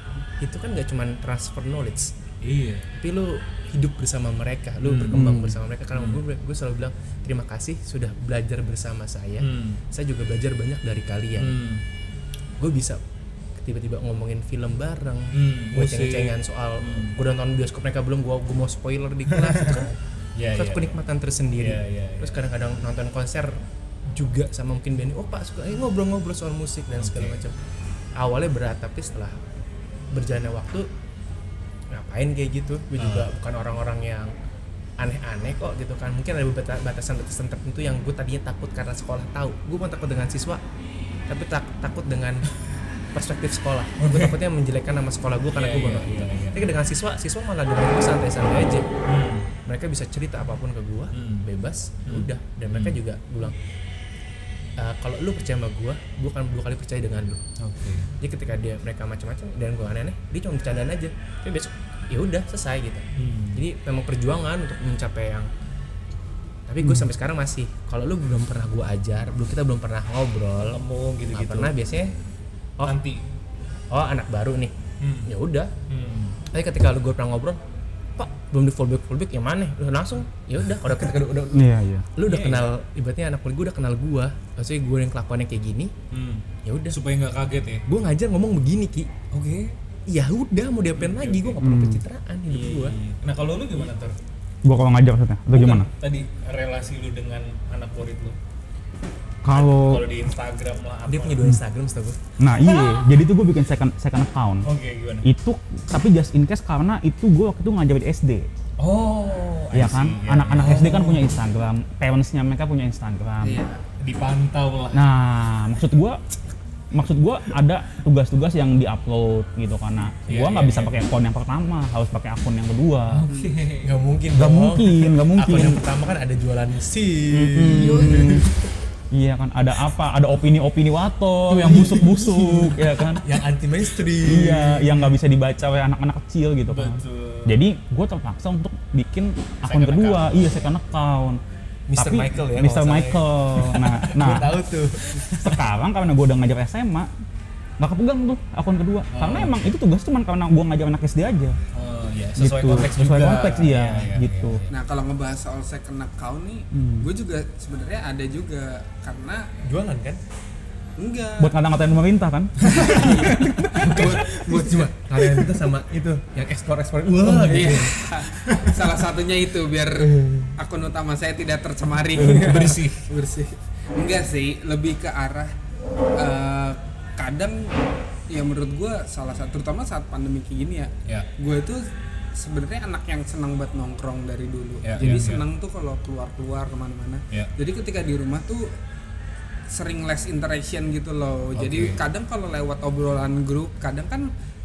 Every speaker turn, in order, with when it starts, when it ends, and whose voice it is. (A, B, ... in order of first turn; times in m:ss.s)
0:00.4-0:02.1 A
0:02.4-0:02.9 B
0:02.9-0:11.6 A
0:04.8-0:05.4 B
0:05.1-0:05.6 C
0:05.9-0:06.2 B
0:09.4-0:09.8 B
0:11.4-0:11.8 B
0:12.6-0:13.0 A
0:13.6-0:19.9 A
0:15.3-0:17.2 B
0:19.3-0:21.0 B
0:20.5-0:23.6 A
0:21.6-0:22.4 B
0:24.1-0:27.6 A
0:27.0-0:27.4 B
0:28.2-0:29.4 A
0:30.1-0:30.9 A
0:31.9-0:34.3 A
0:33.0-0:33.3 B
0:35.0-0:40.6 A
0:41.3-0:42.5 A
0:43.1-0:48.9 A
0:44.0-0:44.4 B
0:45.5-0:46.7 B
0:49.0-0:49.5 B
0:49.6-0:53.6 A
0:51.1-0:51.5 B
0:52.0-0:53.0 B
0:54.8-0:57.4 A
0:57.6-0:58.1 B
0:58.2-1:05.5 A
1:03.1-1:03.6 B
1:06.7-1:10.8 A
1:10.7-1:11.7 B
1:11.3-1:12.1 A
1:12.8-1:13.2 B
1:13.9-1:14.7 A
1:15.0-1:15.3 B
1:15.2-1:15.7 A
1:15.9-1:16.4 B
1:16.5-1:17.6 A
1:18.2-1:25.9 A
1:21.5-1:22.1 C
1:22.2-1:22.7 B
1:26.1-1:27.8 B
1:26.6-1:27.0 A
1:27.9-1:29.1 A
1:29.3-1:29.8 B
1:30.1-1:33.0 A
1:31.0-1:31.6 B
1:31.6-1:32.0 C
1:32.5-1:34.2 B
1:34.6-1:35.9 C
1:35.5-1:38.4 B
1:39.4-1:40.0 C
1:39.5-1:41.4 B
1:41.1-1:42.2 A
1:42.4-1:44.7 C
1:44.6-1:45.3 B
1:45.2-1:48.5 C
1:48.8-1:51.2 B
1:49.7-1:53.6 C
1:50.7-1:51.1 A
1:53.4-1:53.8 D
1:54.0-1:55.1 B
1:54.9-1:56.2 C
1:56.9-2:03.2 C
2:00.3-2:01.0 B
2:03.1-2:04.0 B
2:03.3-2:03.6 D
2:03.8-2:08.4 A
2:04.3-2:05.8 C
2:07.3-2:08.5 C
2:07.6-2:08.6 D
2:09.1-2:13.2 C
2:11.5-2:12.7 B
2:11.6-2:15.0 A
2:14.2-2:21.4 C
2:16.7-2:17.6 B
2:19.6-2:20.7 B
2:21.9-2:25.6 A
2:22.0-2:24.6 C
2:25.3-2:27.1 C
2:27.8-2:31.6 C
2:29.1-2:29.6 B
2:31.7-2:34.8 B
2:32.4-2:34.6 C
2:34.7-2:39.5 D
2:36.7-2:37.1 C
2:39.6-2:40.2 A
2:41.0-2:41.5 D
2:41.4-2:44.0 C
2:42.6-2:43.2 B
2:42.6-2:44.8 D
2:43.7-2:48.0 A
2:47.3-2:55.5 D
2:47.3-2:47.7 B
2:48.3-2:48.7 B
2:50.0-2:50.5 C
2:52.2-2:53.1 B
2:52.2-2:52.6 C
2:56.2-2:57.7 D
2:58.3-3:08.7 D
3:04.8-3:05.4 B
3:09.7-3:14.3 D
3:11.5-3:12.0 B